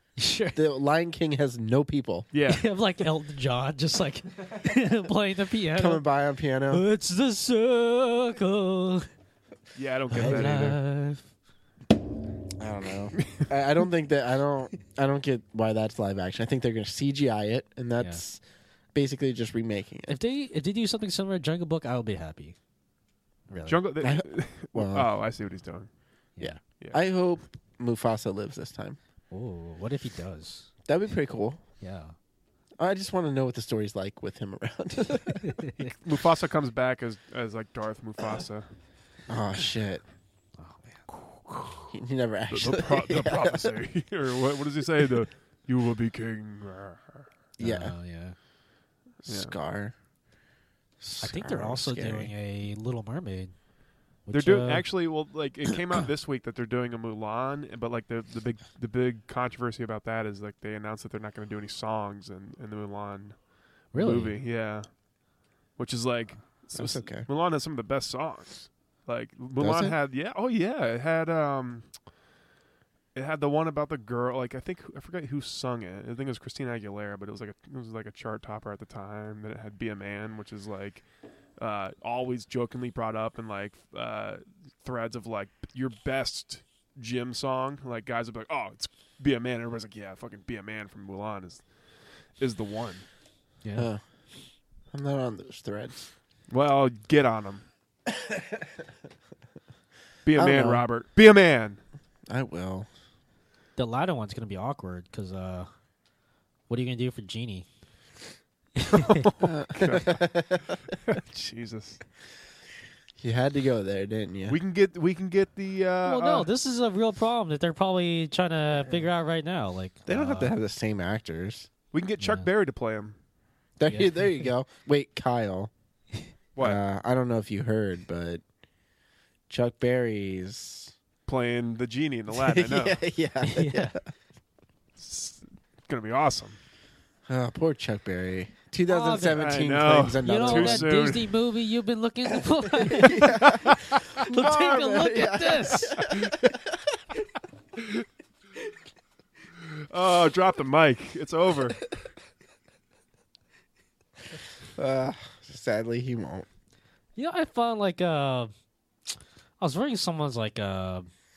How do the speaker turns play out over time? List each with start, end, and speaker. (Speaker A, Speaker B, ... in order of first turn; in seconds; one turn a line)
Speaker A: 0.2-0.6
Speaker B: 0.5-2.3
Speaker C: 2.3-2.6
Speaker A: 2.5-6.0
Speaker B: 5.7-6.8
Speaker A: 6.7-9.1
Speaker C: 9.7-10.8
Speaker A: 10.1-11.2
Speaker B: 10.2-10.5
Speaker B: 12.6-18.4
Speaker B: 18.9-20.1
Speaker A: 20.1-22.6
Speaker A: 23.5-23.8
Speaker C: 23.6-25.9
Speaker B: 24.0-25.1
Speaker B: 26.4-29.0
Speaker A: 29.3-30.7
Speaker B: 30.9-31.6
Speaker A: 31.8-32.1
Speaker B: 32.8-35.7
Speaker A: 35.6-35.9
Speaker C: 36.0-38.7
Speaker B: 39.3-40.0
Speaker A: 40.6-41.1
Speaker B: 41.9-43.7
Speaker C: 42.5-47.3
Speaker B: 47.6-47.9
Speaker A: 47.6-48.4
Speaker B: 49.2-49.9
Speaker C: 49.3-49.5
Speaker B: 51.0-52.3
Speaker A: 51.2-53.5
Speaker A: 54.2-54.9
Speaker C: 54.3-64.9
Speaker A: 63.9-64.4
Speaker C: 65.8-71.9
Speaker B: 66.7-67.3
Speaker B: 69.6-70.0
Speaker C: 73.1-81.0
Speaker C: 81.6-91.7
Speaker C: 92.4-93.0
Speaker B: 93.8-94.0
Speaker B: 94.9-96.1
Speaker C: 96.5-97.6
Speaker B: 98.1-98.6
Speaker C: 100.2-101.8
Speaker B: 100.3-100.8
Speaker B: 102.3-102.9
Speaker A: 103.8-105.7
Speaker A: 106.7-107.7
Speaker A: 108.8-109.2
Speaker C: 109.0-110.2
Speaker B: 109.4-110.7
Speaker C: 110.9-112.0
Speaker B: 113.2-114.6
Speaker C: 114.5-116.5
Speaker A: 116.0-120.5
Speaker B: 120.1-121.7
Speaker C: 121.9-123.2
Speaker A: 122.2-122.5
Speaker B: 123.8-125.7
Speaker A: 123.9-124.4
Speaker C: 126.5-126.8
Speaker B: 126.6-128.4
Speaker B: 129.5-130.9
Speaker C: 131.3-133.0
Speaker B: 132.3-134.0
Speaker A: 133.4-133.9
Speaker C: 135.0-136.6
Speaker B: 137.3-140.9
Speaker A: 138.9-139.4
Speaker C: 139.3-141.3
Speaker A: 140.2-143.3
Speaker B: 142.8-146.5
Speaker C: 143.4-144.0
Speaker A: 144.2-146.0
Speaker C: 146.0-146.5
Speaker C: 147.8-148.0
Speaker C: 149.7-151.8
Speaker B: 154.8-156.5
Speaker A: 157.2-158.5
Speaker A: 159.6-161.1